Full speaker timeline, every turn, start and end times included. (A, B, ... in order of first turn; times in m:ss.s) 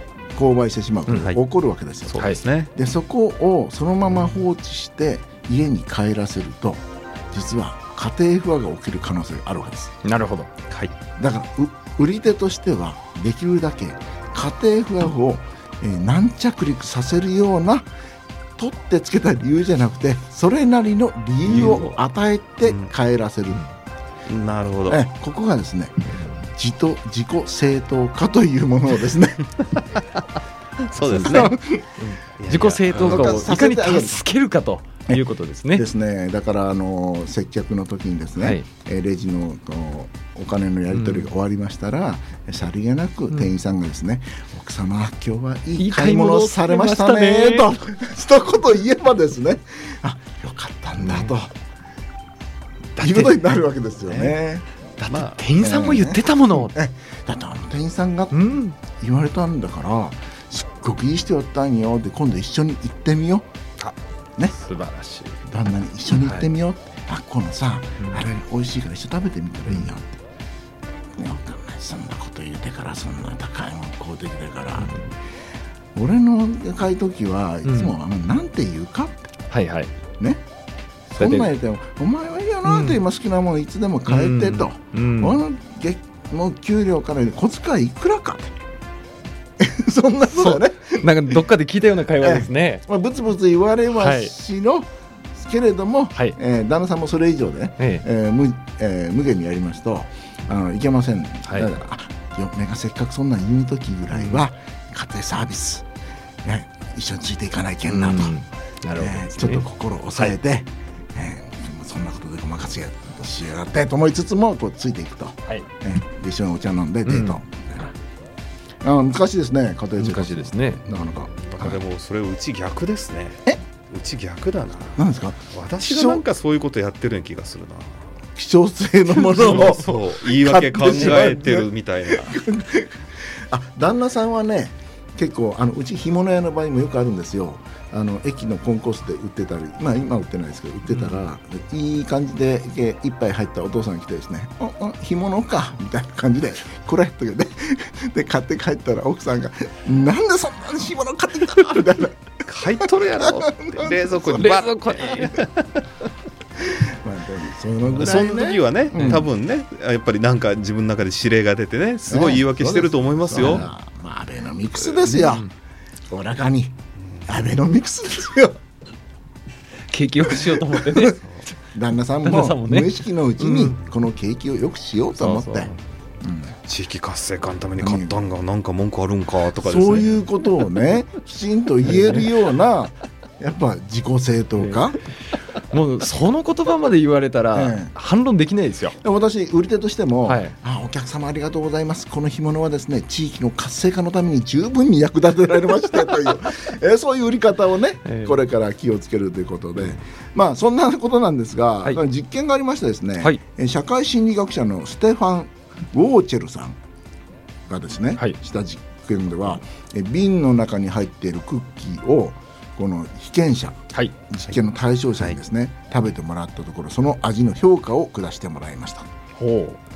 0:00.3-0:09.9 A
0:01.1-0:01.4 B
0:02.1-0:02.7 B
0:02.2-0:02.4 C
0:10.0-0:10.5 C
0:11.2-0:17.9 A
0:18.6-0:23.6 A
0:21.5-0:22.0 C
0:22.6-0:22.9 B
0:24.3-0:25.0 B
0:24.9-0:29.6 A
0:30.9-0:31.5 B
0:31.0-0:31.9 A
0:32.0-0:35.8 C
0:32.4-0:33.5 B
0:32.9-0:34.2 A
0:35.7-0:51.5 A
0:38.4-0:38.7 C
0:40.9-0:41.3 C
0:45.8-0:47.7 C
0:51.0-0:51.3 C
0:53.0-0:53.4 C
0:53.0-0:54.6 A
0:55.0-0:56.7 C
0:55.1-0:55.4 B
0:55.6-1:03.5 A
0:58.3-0:58.8 C
1:04.5-1:05.4 C
1:05.5-1:10.2 A
1:06.1-1:06.5 C
1:08.0-1:08.3 C
1:11.2-1:14.9 A
1:14.8-1:15.1 C
1:15.9-1:19.3 A
1:17.6-1:17.9 C
1:19.5-1:19.9 C
1:21.1-1:28.5 A
1:21.2-1:21.5 C
1:22.6-1:23.0 C
1:24.1-1:25.4 C
1:29.6-1:31.4 A
1:30.3-1:32.8 C
1:32.2-1:45.8 A
1:33.9-1:34.3 C
1:37.8-1:38.0 C
1:44.1-1:44.4 C
1:46.4-1:48.3 A
1:47.9-1:50.4 C
1:49.0-1:58.0 A
1:57.0-1:57.4 C
1:58.8-2:01.8 A
2:00.0-2:00.8 C
2:01.4-2:08.0 B
2:05.0-2:06.2 A
2:08.3-2:13.0 A
2:09.1-2:09.9 C
2:09.4-2:12.4 B
2:10.8-2:11.3 C
2:13.5-2:32.3 A
2:32.4-2:35.8 B
2:32.8-2:34.6 A
2:34.4-2:35.4 C
2:36.6-2:39.3 A
2:37.9-2:43.7 B
2:39.0-2:39.2 C
2:42.1-2:45.5 A
2:43.4-2:43.6 C
2:45.0-2:45.5 C
2:46.1-2:46.7 A
2:47.2-2:48.6 A
2:49.9-2:51.5 C
2:50.2-2:51.2 A
2:51.0-2:51.4 B
2:51.7-2:56.6 A
2:52.2-2:53.7 C
2:55.2-2:55.8 C
2:56.6-3:00.2 B
2:57.8-2:58.2 A
2:59.6-3:05.0 A
3:01.8-3:02.3 C
3:05.7-3:09.0 C
3:07.5-3:07.9 A
3:09.0-3:26.8 A
3:10.2-3:10.5 C
3:18.0-3:18.4 C
3:27.7-3:39.1 A
3:39.4-3:39.8 C